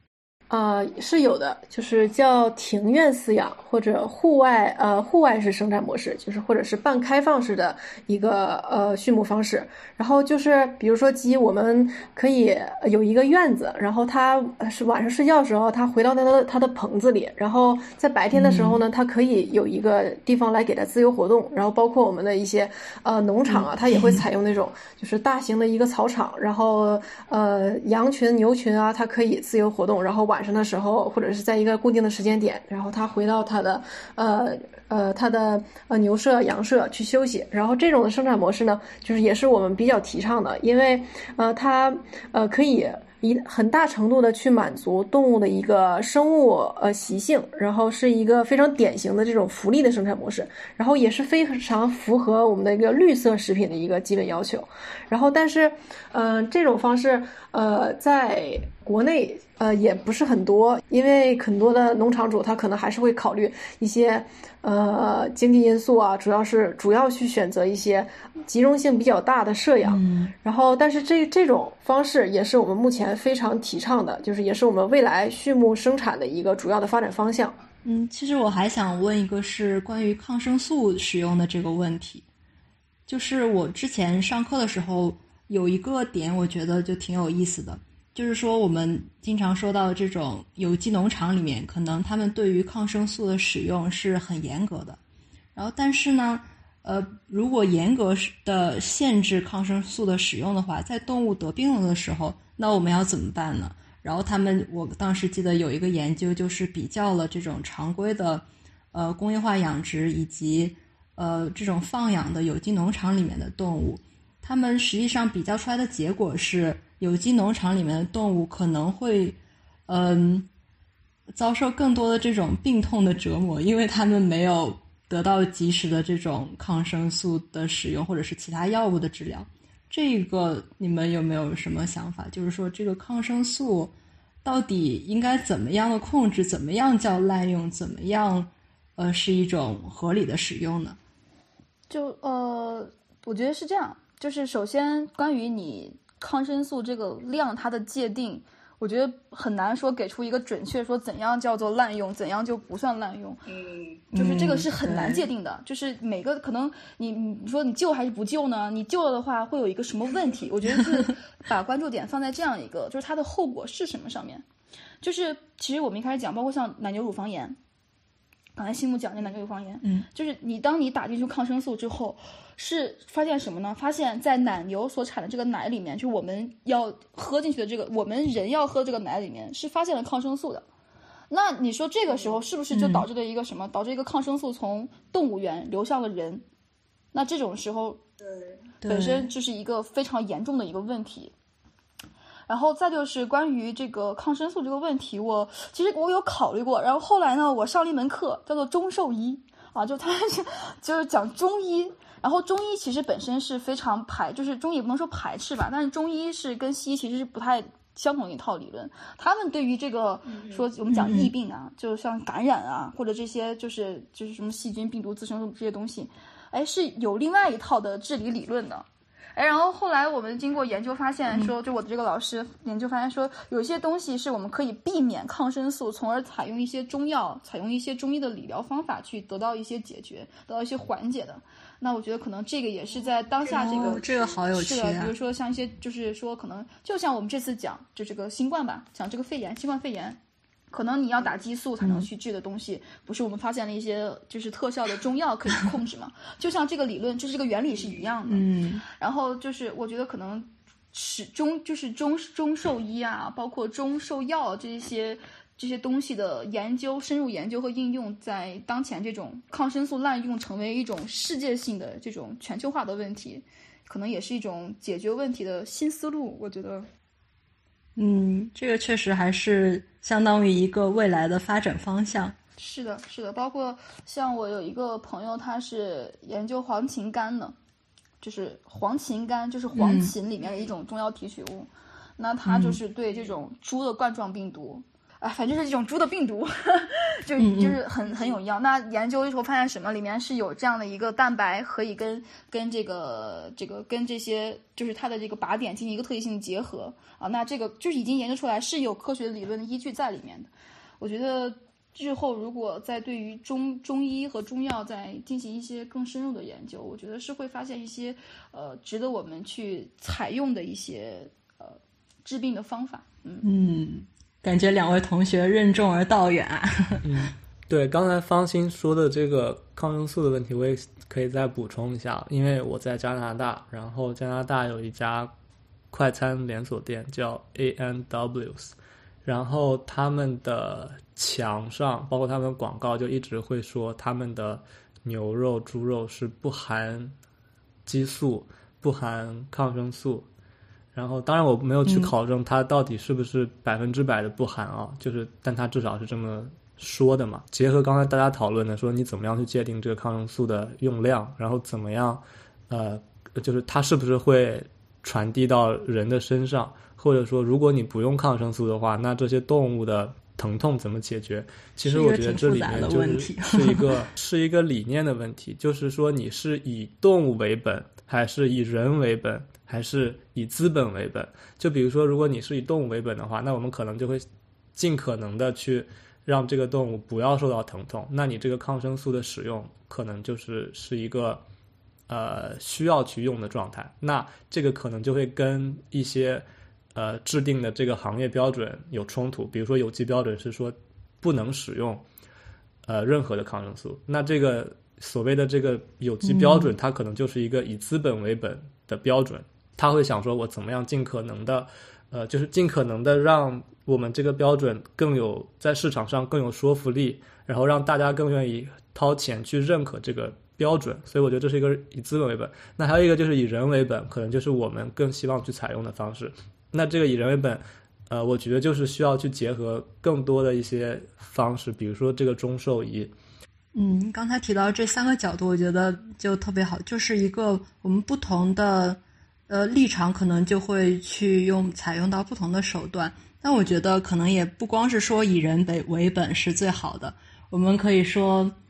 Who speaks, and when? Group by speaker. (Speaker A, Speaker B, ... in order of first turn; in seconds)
Speaker A: 0.5-77.6
Speaker B: 18.3-18.8, 23.5-24.2, 69.8-70.3, 77.8-82.2, 83.1-95.0, 95.5-120.5, 121.3-141.0, 154.1-155.2, 169.8-170.1, 182.7-183.1, 188.8-189.3, 210.9-211.3, 233.5-235.1, 241.8-242.1, 248.3-248.8, 268.0-272.4, 279.7-280.1, 282.4-282.8, 287.4-287.8, 313.4-317.2, 341.9-342.1, 361.8-364.1, 396.2-396.7, 423.8-438.6
Speaker C: 141.9-153.4, 154.1-164.4, 165.0-167.6, 168.6-180.7, 181.3-186.4, 187.1-188.1, 188.8-191.3, 192.5-240.2, 240.7-266.9, 272.6-277.6, 278.2-313.5
Speaker D: 317.0-325.3, 325.9-328.7, 329.2-337.1, 337.9-340.3, 340.9-381.4, 382.1-392.1, 392.9-423.1